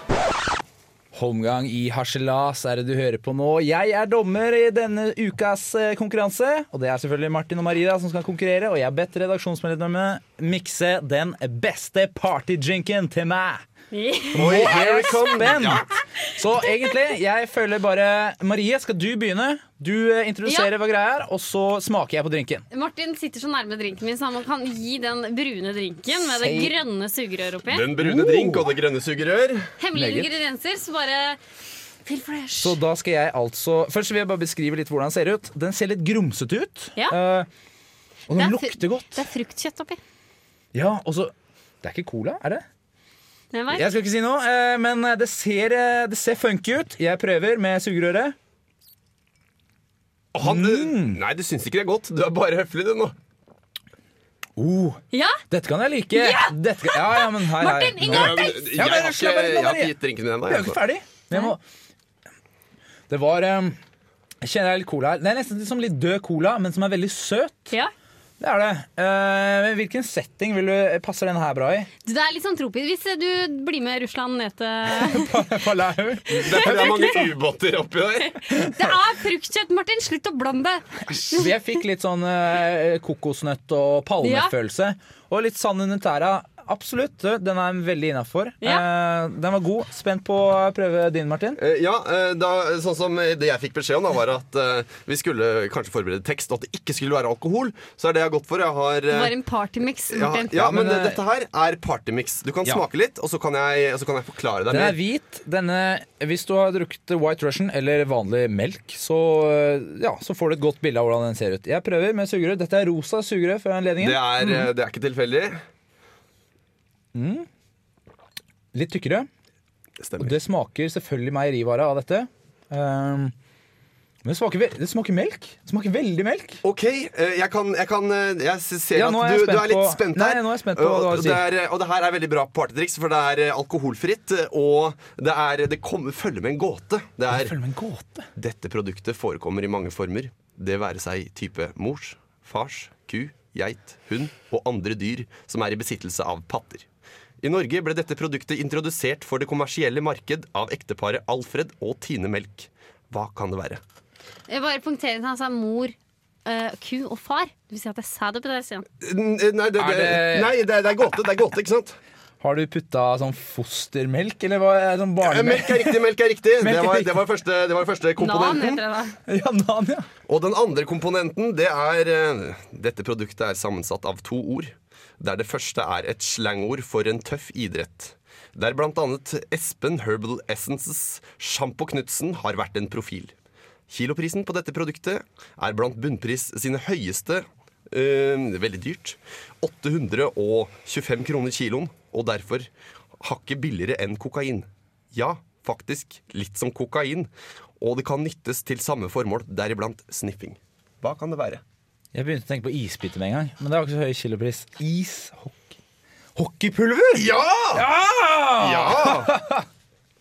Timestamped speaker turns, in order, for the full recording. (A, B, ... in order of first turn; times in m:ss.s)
0:01.1-0:13.6 A
0:13.9-0:15.2 B
0:14.3-0:15.9 C
0:14.3-0:22.6 A
0:20.4-0:20.7 B
0:22.7-0:27.8 B
0:26.2-0:26.7 A
0:27.7-0:29.7 C
0:28.0-0:28.7 A
0:29.8-0:31.4 B
0:29.9-0:30.3 A
0:32.0-0:32.8 B
0:32.6-0:37.5 A
0:38.3-0:39.3 A
0:38.3-0:40.0 B
0:40.7-0:42.6 A
0:43.5-0:43.8 B
0:43.7-0:48.4 A
0:50.3-0:53.1 C
0:50.4-0:51.2 A
0:54.6-0:59.9 A
0:55.1-0:55.4 B
0:56.2-0:58.6 B
0:58.0-1:00.8 C
1:00.5-1:01.6 A
1:03.1-1:03.8 A
1:04.4-1:07.7 A
1:08.4-1:11.9 A
1:12.0-1:15.5 B
1:14.9-1:17.1 A
1:16.3-1:18.4 C
1:16.3-1:17.2 B
1:18.4-1:21.5 B
1:18.6-1:18.9 A
1:21.1-1:31.6 A
1:24.2-1:24.5 B
1:31.6-1:39.4 C
1:39.1-1:40.5 B
1:40.1-1:45.0 C
1:40.5-1:41.2 A
1:44.7-1:54.7 A
1:54.0-1:55.6 C
1:57.1-1:57.5 A
1:58.7-1:59.3 A
2:00.0-2:00.3 C
2:00.2-2:03.3 A
2:04.2-2:06.6 A
2:06.6-2:17.6 C
2:08.9-2:11.4 A
2:17.3-2:18.3 A
2:18.4-2:26.8 C
2:27.4-2:33.8 C
2:34.5-2:38.8 B
2:39.0-2:42.0 C
2:39.8-2:40.6 A
2:42.4-2:46.0 A
2:45.2-2:48.8 C
2:46.6-2:47.2 A
2:48.2-2:49.2 B
2:49.3-2:50.1 A
2:50.3-3:03.3 C
3:03.9-3:12.7 C
3:13.2-3:17.3 C
3:17.8-3:21.6 C
3:22.1-3:25.8 A
3:26.4-3:29.6 A
3:27.1-3:27.9 C
3:28.6-3:29.4 C